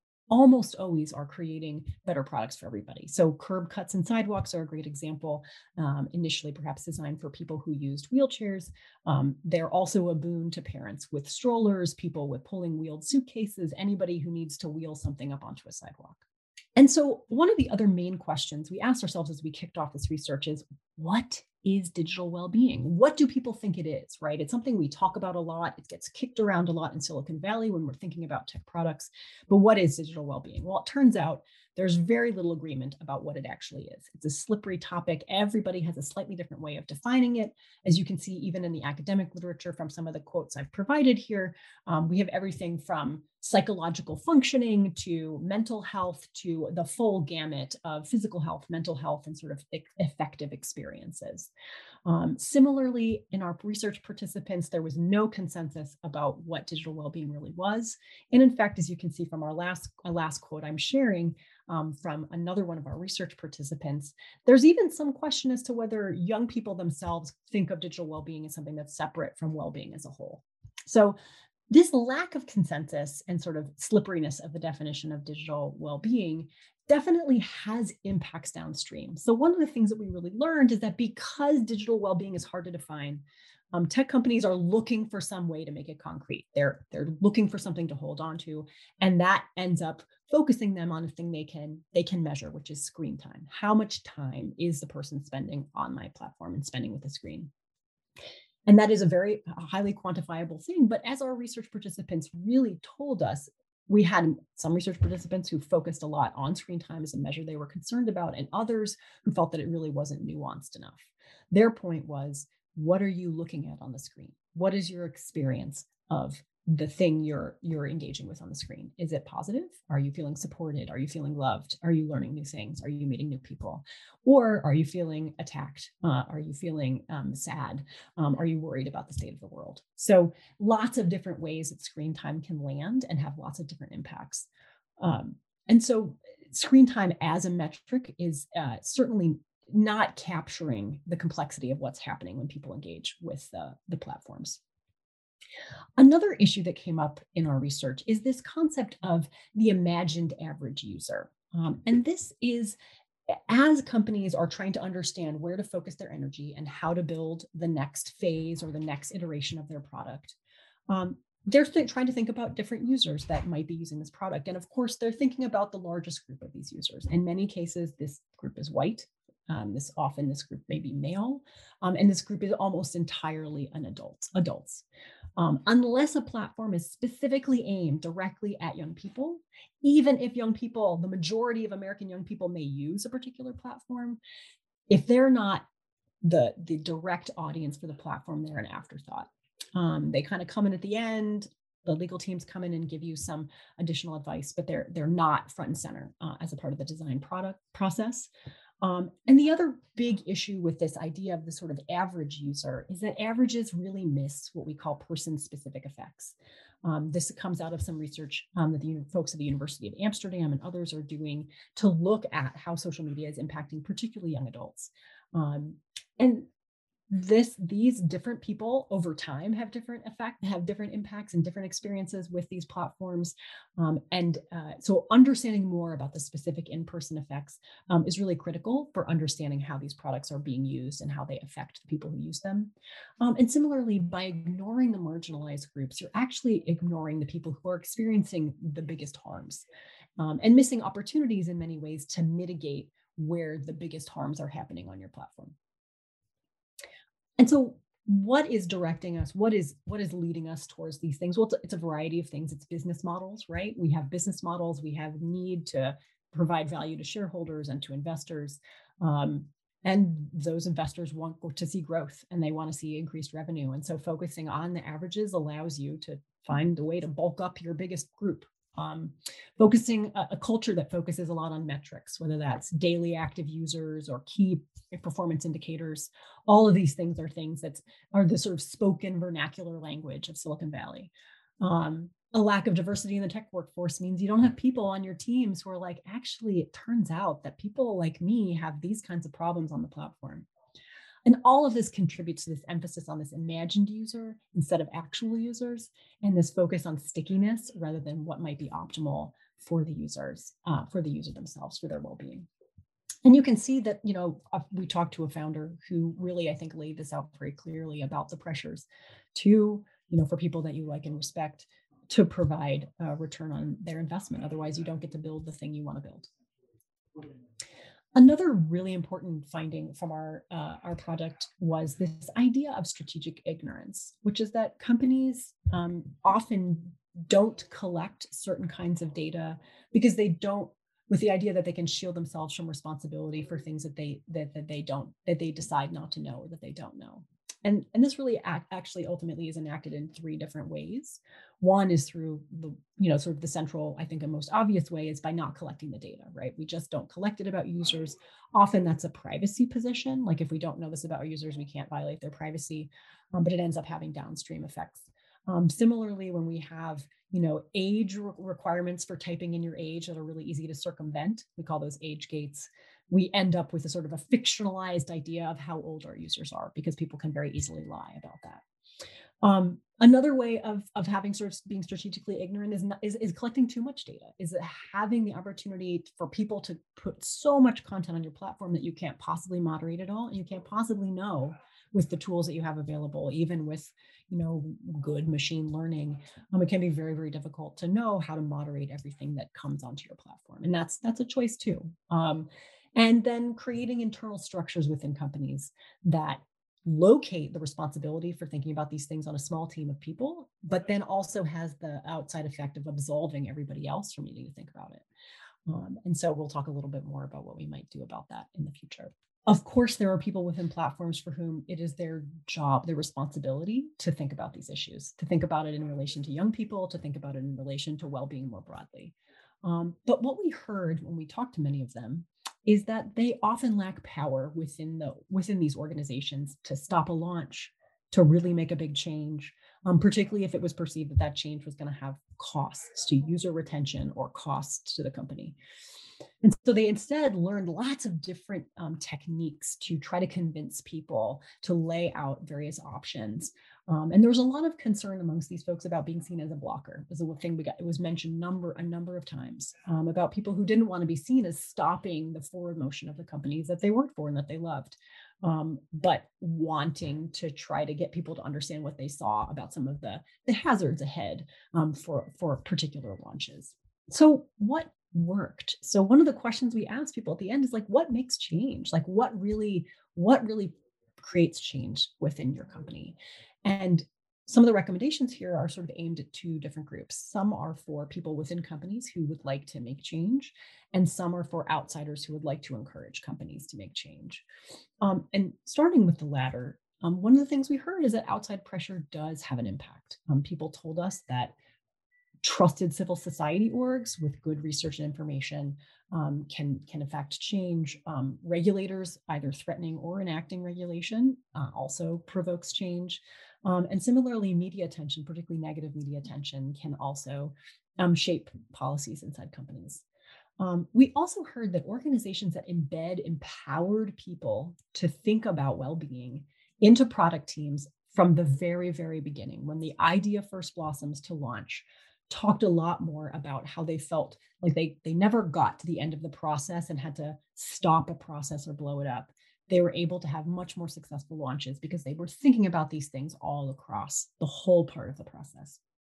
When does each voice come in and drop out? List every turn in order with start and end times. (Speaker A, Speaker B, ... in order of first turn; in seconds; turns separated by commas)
Speaker A: 0.3-16.2, Speaker A: 16.8-51.5, Speaker A: 52.0-71.2, Speaker A: 71.7-97.5, Speaker A: 98.7-134.5, Speaker A: 135.0-144.6, Speaker A: 146.0-152.8, Speaker A: 153.3-160.3, Speaker A: 160.9-174.8, Speaker A: 175.4-184.2, Speaker A: 184.9-185.7, Speaker A: 186.2-198.3, Speaker A: 198.8-216.5, Speaker A: 217.1-239.6, Speaker A: 240.2-245.5, Speaker A: 247.4-290.5, Speaker A: 291.2-302.5, Speaker A: 303.2-316.3, Speaker A: 318.1-368.6, Speaker A: 369.4-405.0, Speaker A: 405.7-435.6, Speaker A: 436.4-484.4, Speaker A: 485.0-491.5, Speaker A: 492.4-510.0, Speaker A: 510.6-535.8